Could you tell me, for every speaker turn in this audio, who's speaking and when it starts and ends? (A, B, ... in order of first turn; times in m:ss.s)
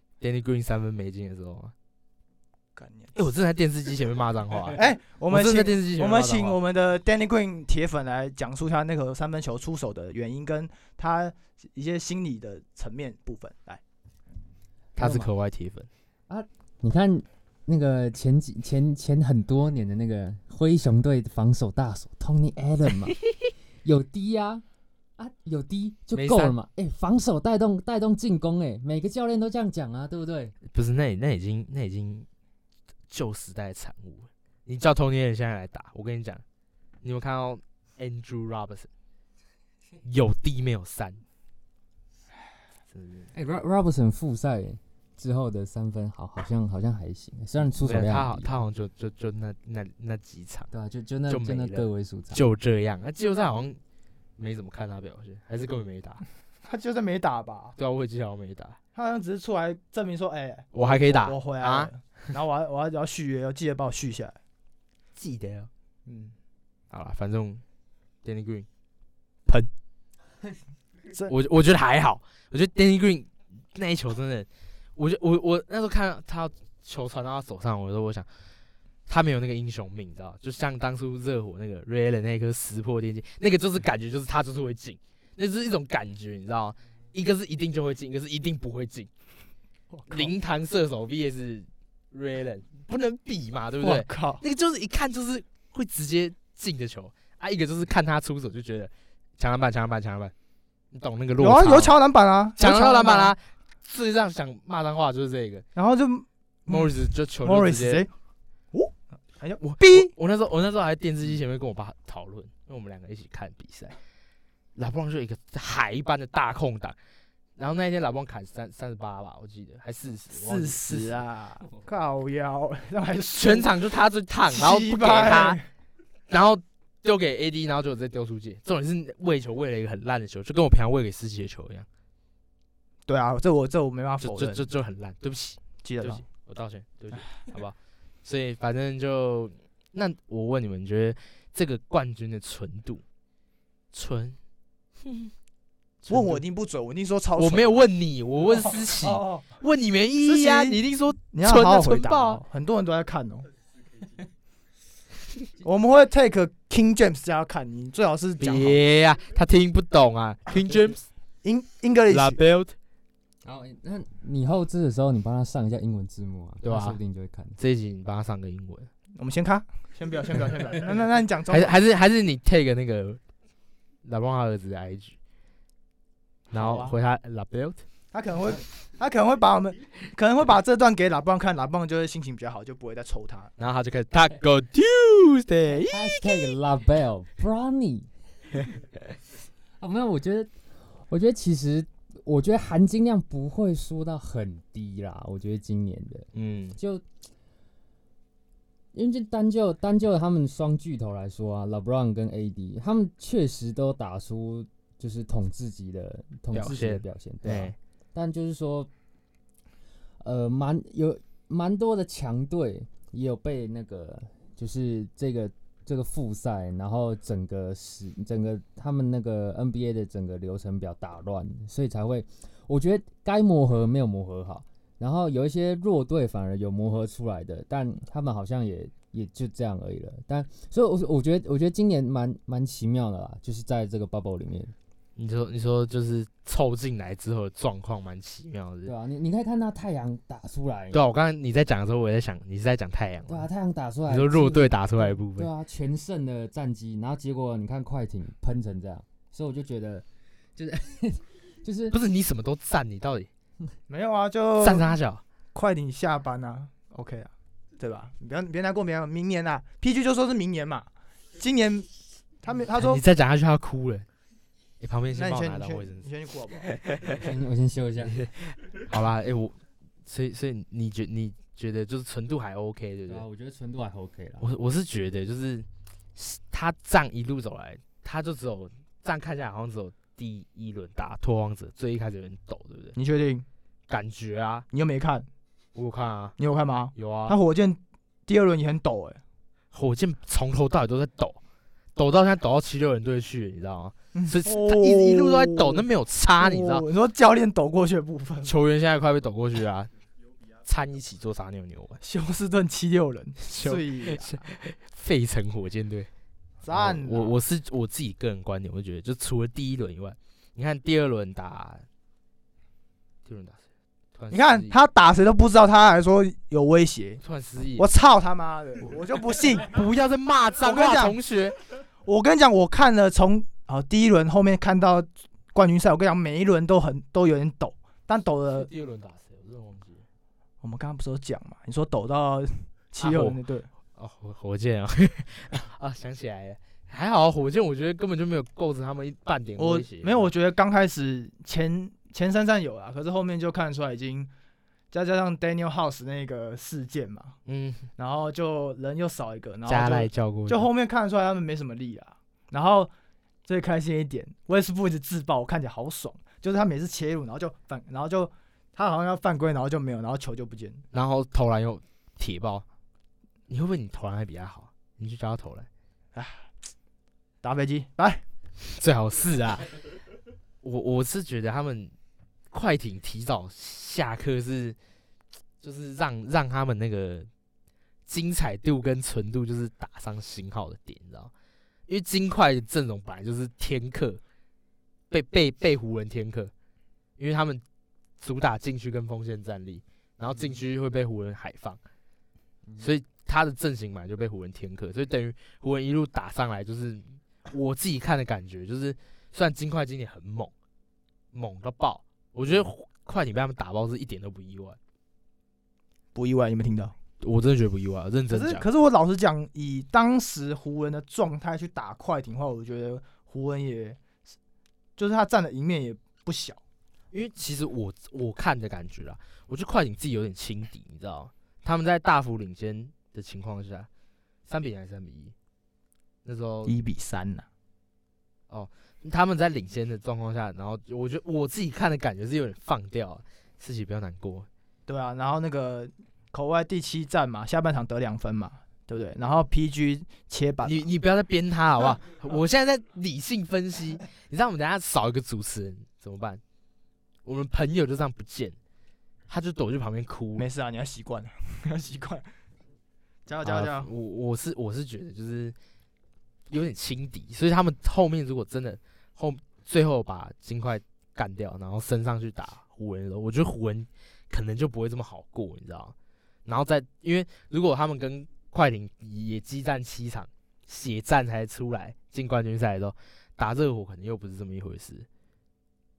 0:00.2-0:01.7 A
0:02.8-0:03.2 B
0:03.1-0:06.6 A
0:04.7-0:13.8 B
0:15.0-0:15.9 A
0:15.0-0:15.3 C
0:16.3-0:23.2 C
0:23.8-0:24.6 C
0:25.2-0:30.5 C
0:26.1-0:26.5 A
0:30.7-0:32.3 A
0:33.1-0:36.4 A
0:37.0-0:38.9 A
0:40.0-0:41.2 A
0:42.9-0:43.3 A
0:43.3-0:48.5 C
0:47.8-0:50.7 A
0:50.7-0:52.4 C
0:51.3-0:53.8 A
0:54.4-0:56.2 A
0:56.6-0:57.8 B
0:57.8-0:58.8 A
0:58.9-1:04.4 B
1:00.7-1:01.9 A
1:05.2-1:05.7 A
1:06.0-1:06.3 B
1:06.9-1:07.6 A
1:08.2-1:08.6 A
1:11.3-1:18.3 A
1:19.1-1:29.1 A
1:29.9-1:30.3 B
1:30.1-1:40.3 A
1:33.8-1:34.4 B
1:40.9-1:41.9 A
1:41.4-1:43.3 B
1:42.6-1:45.6 A
1:45.8-1:48.1 B
1:46.7-1:48.0 A
1:48.7-1:50.1 B
1:49.6-1:54.0 A
1:54.8-1:57.0 A
1:57.6-2:01.2 A
2:00.3-2:03.8 B
2:03.3-2:05.6 A
2:04.5-2:05.6 B
2:06.3-2:11.9 A
2:13.1-2:14.7 B
2:14.2-2:23.0 A
2:15.8-2:16.2 B
2:23.9-2:24.4 A
2:25.0-2:25.3 A
2:26.0-2:26.4 A
2:26.1-2:27.8 B
2:27.4-2:32.4 A
2:28.5-2:29.6 B
2:30.2-2:30.8 B
2:31.3-2:33.5 B
2:35.6-2:38.8 B
2:38.4-2:41.0 A
2:41.4-2:42.4 B
2:42.1-2:42.7 A
2:43.4-2:47.6 C
2:46.6-2:47.0 A
2:47.6-2:48.9 A
2:49.2-2:51.8 B
2:51.5-2:53.2 A
2:54.0-2:55.2 A
2:56.5-2:57.8 A
2:56.5-2:56.9 B
2:58.1-3:03.5 B
3:03.6-3:06.4 A
3:05.9-3:08.1 C
3:09.8-3:17.0 C
3:16.3-3:16.8 A
3:18.9-3:28.9 C
3:26.5-3:27.8 A
3:30.2-3:54.7 C
3:55.2-3:58.9 A
3:58.8-4:01.0 C
4:00.9-4:03.5 A
4:03.3-4:11.9 C
4:04.1-4:05.5 A
4:11.9-4:13.3 A
4:13.9-4:14.9 B
4:14.6-4:15.2 A
4:15.5-4:23.0 B
4:22.7-4:24.1 A
4:24.8-4:26.1 A
4:25.1-4:27.2 B
4:27.2-4:28.2 C
4:28.2-4:33.2 A
4:33.1-4:34.5 C
4:34.4-4:43.0 A
4:43.0-4:43.4 B
4:43.9-4:44.6 A
4:44.7-4:45.3 B
4:45.7-4:46.4 A
4:46.4-4:49.2 B
4:46.9-4:47.4 A
4:49.7-4:51.4 A
4:51.9-4:56.8 A
4:54.1-4:55.8 B
4:56.4-4:58.5 B
4:58.4-4:59.9 A
5:00.6-5:02.0 A
5:02.0-5:04.5 B
5:03.4-5:06.1 A
5:06.6-5:07.4 B
5:06.7-5:11.8 A
5:13.2-5:13.6 A
5:14.1-5:14.7 A
5:14.3-5:17.2 B
5:17.2-5:17.9 A
5:17.8-5:19.8 B
5:19.6-5:21.6 A
5:20.6-5:21.2 B
5:22.0-5:28.7 B
5:28.5-5:30.0 A
5:30.6-5:33.7 B
5:33.0-5:33.4 A
5:33.9-5:40.3 A
5:39.6-5:44.3 B
5:44.9-5:47.4 B
5:47.5-5:47.9 A
5:48.0-5:52.9 B
5:49.7-5:50.6 A
5:53.4-6:00.8 B
6:00.9-6:02.6 A
6:03.5-6:05.7 A
6:06.1-6:06.5 B
6:07.4-6:08.2 B
6:08.8-6:09.8 A
6:10.6-6:11.9 A
6:12.5-6:14.8 A
6:15.6-6:17.3 A
6:18.0-6:21.3 A
6:21.9-6:24.2 A
6:25.1-6:26.5 A
6:27.2-6:27.6 A
6:28.2-6:31.8 A
6:32.8-6:40.5 A
6:41.3-6:44.8 A
6:46.1-6:46.9 B
6:47.2-6:48.6 A
6:48.3-6:54.0 B
6:55.0-6:56.6 B
6:57.1-7:03.9 A
7:04.5-7:05.3 A
7:06.2-7:06.7 A
7:06.6-7:07.4 B
7:08.5-7:14.5 A
7:14.9-7:20.8 B
7:20.6-7:26.4 A
7:27.2-7:28.6 A
7:29.3-7:30.4 A
7:30.4-7:32.3 B
7:33.3-7:33.9 B
7:33.4-7:35.5 A
7:36.5-7:45.9 A
7:46.4-7:55.1 A